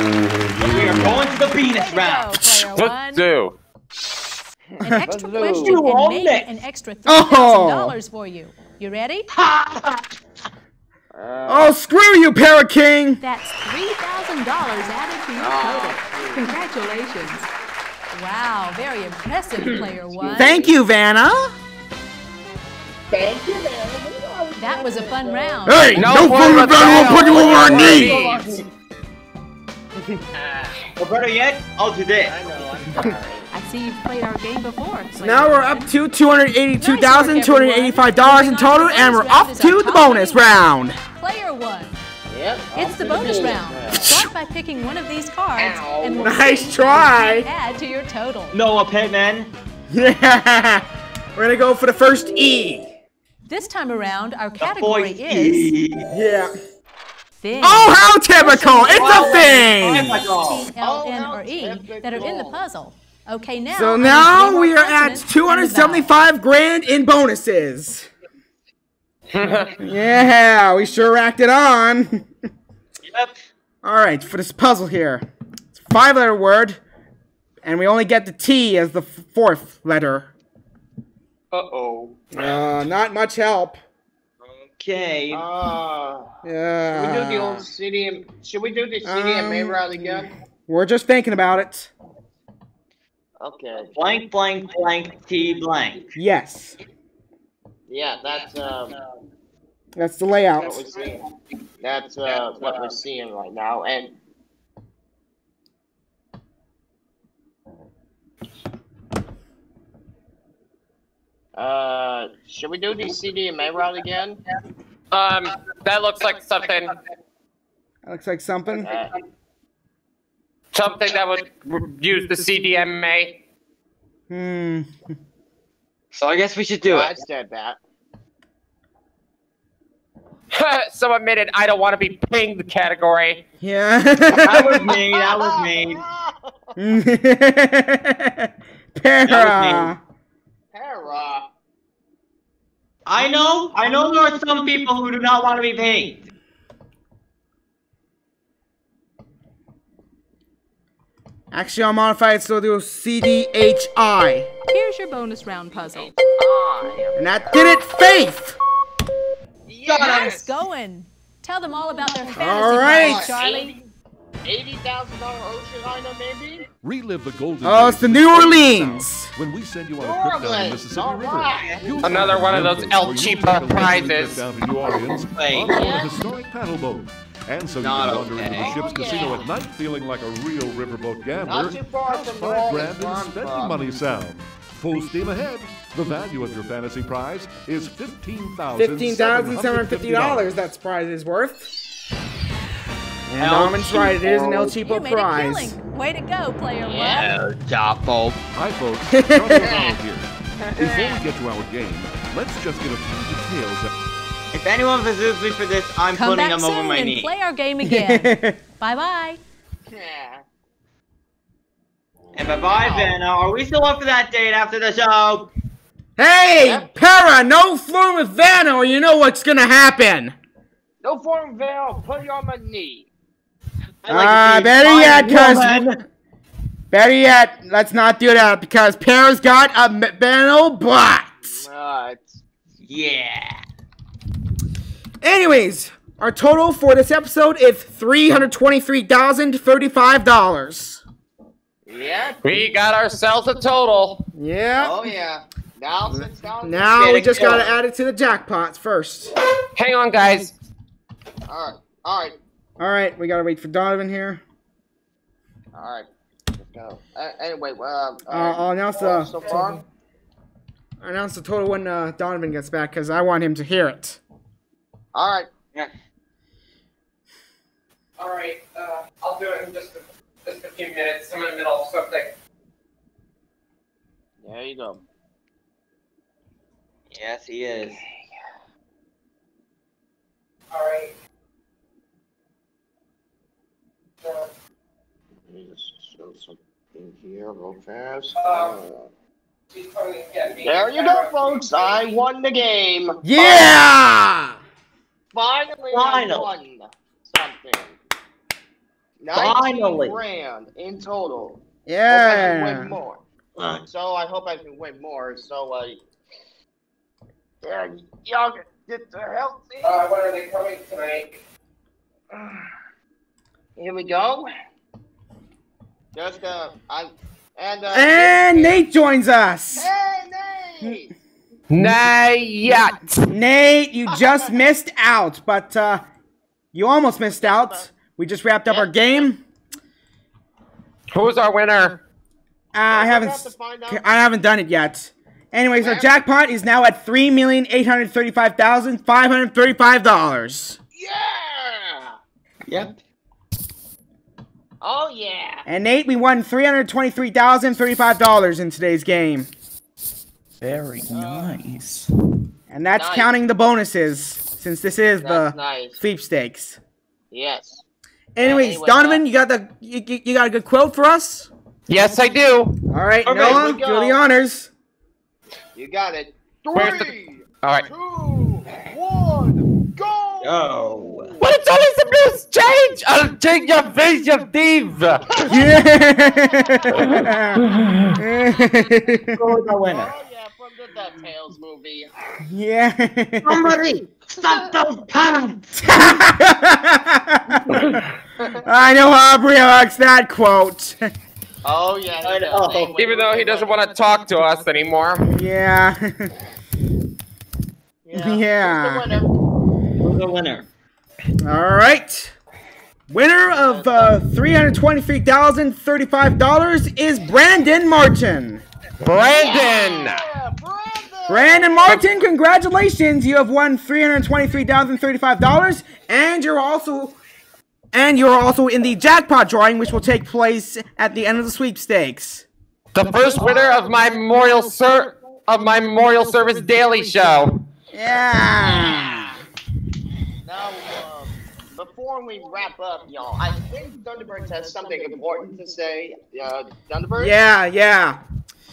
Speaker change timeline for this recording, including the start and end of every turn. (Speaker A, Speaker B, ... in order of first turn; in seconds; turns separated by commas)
Speaker A: 0.6-2.4, Speaker B: 0.6-3.2, Speaker C: 2.4-3.6, Speaker D: 4.8-5.8, Speaker B: 4.8-9.2, Speaker A: 5.4-6.6, Speaker E: 7.0-8.0, Speaker A: 9.3-10.0, Speaker D: 11.1-11.7, Speaker E: 11.5-13.2, Speaker B: 13.2-17.5, Speaker D: 15.4-16.5, Speaker B: 18.1-20.5, Speaker D: 19.6-20.7, Speaker E: 20.4-21.5, Speaker D: 23.1-25.7, Speaker B: 24.6-25.9, Speaker E: 25.6-28.2, Speaker C: 25.9-28.4, Speaker D: 27.0-28.5, Speaker A: 27.3-28.6, Speaker D: 30.3-30.9, Speaker A: 31.0-32.7, Speaker D: 32.2-33.5, Speaker B: 33.5-35.9, Speaker E: 35.2-41.0, Speaker B: 36.8-40.6, Speaker B: 41.2-42.0, Speaker D: 42.3-44.0, Speaker B: 42.7-48.6, Speaker E: 44.0-44.3, Speaker D: 45.6-46.4, Speaker E: 46.2-47.5, Speaker A: 48.5-49.5, Speaker E: 49.9-52.9, Speaker B: 53.5-55.7, Speaker A: 54.6-56.1, Speaker E: 56.1-56.5, Speaker B: 57.4-66.1, Speaker E: 57.6-60.4, Speaker A: 58.9-60.7, Speaker D: 60.8-62.6, Speaker E: 63.7-68.1, Speaker C: 69.3-69.8, Speaker E: 69.8-72.3, Speaker A: 73.0-73.4, Speaker E: 73.8-76.8, Speaker E: 77.6-80.3, Speaker A: 81.5-82.1, Speaker E: 82.3-83.8, Speaker A: 84.5-85.4, Speaker D: 85.3-86.2, Speaker E: 86.4-87.7, Speaker D: 86.9-90.3, Speaker E: 89.0-90.1, Speaker E: 90.7-91.9, Speaker D: 93.4-93.9, Speaker A: 93.8-96.1, Speaker E: 96.1-96.8, Speaker D: 97.9-98.9, Speaker E: 99.9-100.8, Speaker D: 100.5-101.3, Speaker D: 101.8-104.1, Speaker D: 111.5-114.4, Speaker C: 115.1-117.0, Speaker E: 118.0-118.9, Speaker D: 118.7-119.1, Speaker C: 120.7-123.4, Speaker E: 124.3-124.9, Speaker A: 126.1-127.1, Speaker D: 126.8-127.8, Speaker C: 130.5-133.4, Speaker E: 133.6-135.0, Speaker A: 134.3-136.0, Speaker D: 135.0-136.4, Speaker E: 136.8-140.0, Speaker A: 139.3-139.9, Speaker D: 140.7-141.5, Speaker A: 143.1-146.3, Speaker E: 151.5-154.5, Speaker B: 154.7-156.1, Speaker D: 155.7-157.8, Speaker E: 157.2-158.6, Speaker D: 159.7-160.6, Speaker B: 159.9-163.8, Speaker D: 162.1-163.9, Speaker E: 162.3-163.3, Speaker D: 164.4-166.7, Speaker F: 166.8-190.5, Speaker E: 167.6-169.3, Speaker D: 170.0-172.1, Speaker A: 171.5-172.2, Speaker C: 172.0-174.4, Speaker A: 174.9-175.8, Speaker D: 175.7-176.2, Speaker A: 177.8-179.4, Speaker D: 178.4-179.5, Speaker D: 181.4-184.0, Speaker E: 188.7-191.7, Speaker E: 193.3-195.8, Speaker A: 193.4-194.0, Speaker D: 194.1-194.7, Speaker B: 194.3-197.3, Speaker D: 196.8-197.3, Speaker A: 197.1-198.4, Speaker F: 198.6-203.9, Speaker E: 199.1-199.7, Speaker D: 199.6-200.0, Speaker D: 200.6-201.2, Speaker A: 204.5-207.3, Speaker B: 206.1-209.4, Speaker E: 207.8-208.6, Speaker D: 209.9-210.4, Speaker A: 212.3-215.5, Speaker D: 212.8-213.1, Speaker E: 216.2-220.3, Speaker D: 216.6-216.9, Speaker D: 221.0-223.1, Speaker A: 224.0-226.0, Speaker E: 224.1-225.9, Speaker E: 226.9-231.6, Speaker D: 231.4-232.4, Speaker A: 232.8-233.6, Speaker E: 235.2-241.0, Speaker D: 241.9-242.4, Speaker C: 242.4-244.2, Speaker E: 244.3-245.1, Speaker D: 244.8-246.9, Speaker E: 246.6-249.3, Speaker A: 246.9-247.7, Speaker C: 249.7-250.6, Speaker D: 251.5-252.4, Speaker E: 252.8-254.4, Speaker D: 255.7-259.8, Speaker E: 258.3-259.8, Speaker E: 261.0-264.2, Speaker D: 265.1-265.5, Speaker C: 268.2-272.3, Speaker D: 274.4-275.0, Speaker A: 277.1-278.0, Speaker C: 280.7-281.1, Speaker D: 285.4-289.1, Speaker C: 288.4-288.7, Speaker C: 289.7-292.1, Speaker D: 290.6-293.8, Speaker E: 293.2-294.6, Speaker D: 295.3-298.0, Speaker A: 295.9-296.5, Speaker D: 299.2-303.2, Speaker A: 299.3-300.2, Speaker E: 301.9-303.0, Speaker A: 303.6-303.8, Speaker D: 303.9-306.0, Speaker D: 307.6-310.0, Speaker C: 309.8-311.4, Speaker D: 313.8-314.5, Speaker D: 316.1-318.8, Speaker E: 317.9-319.9, Speaker D: 319.7-321.1, Speaker C: 321.7-323.2, Speaker E: 323.3-326.1, Speaker D: 324.1-324.4, Speaker E: 326.7-329.4, Speaker D: 327.3-327.9, Speaker D: 328.6-329.3, Speaker C: 331.1-332.0, Speaker E: 332.7-340.8, Speaker D: 332.9-334.0, Speaker D: 335.8-336.1, Speaker D: 340.9-342.1, Speaker A: 342.7-342.9, Speaker D: 344.8-345.7, Speaker E: 345.6-349.5, Speaker C: 350.6-352.1, Speaker D: 351.0-351.6, Speaker E: 352.7-356.8, Speaker D: 352.9-353.3, Speaker D: 355.2-356.0, Speaker D: 357.3-357.8, Speaker E: 358.3-361.5, Speaker D: 358.4-359.2, Speaker C: 361.9-362.8, Speaker E: 362.9-364.7, Speaker A: 363.2-364.1, Speaker D: 363.4-364.1, Speaker D: 365.7-371.4, Speaker C: 366.7-367.9, Speaker A: 370.4-371.3, Speaker C: 371.4-375.4, Speaker D: 375.3-377.6, Speaker E: 375.5-377.4, Speaker E: 378.1-379.4, Speaker A: 379.4-380.1, Speaker D: 379.8-382.1, Speaker E: 382.5-383.7, Speaker A: 383.4-385.8, Speaker E: 385.8-388.0, Speaker D: 388.4-388.6, Speaker E: 388.6-391.1, Speaker D: 391.6-393.8, Speaker A: 392.2-393.0, Speaker C: 392.9-395.3, Speaker E: 395.2-396.3, Speaker D: 398.1-399.3, Speaker E: 398.1-399.1, Speaker A: 400.0-400.7, Speaker E: 401.4-402.3, Speaker E: 403.1-408.6, Speaker D: 403.5-404.2, Speaker C: 409.0-410.2, Speaker D: 409.2-412.1, Speaker E: 411.3-417.2, Speaker E: 417.9-422.4, Speaker C: 422.9-427.6, Speaker D: 423.4-423.9, Speaker E: 427.9-429.3, Speaker D: 428.6-429.2, Speaker D: 430.4-437.4, Speaker E: 437.2-438.2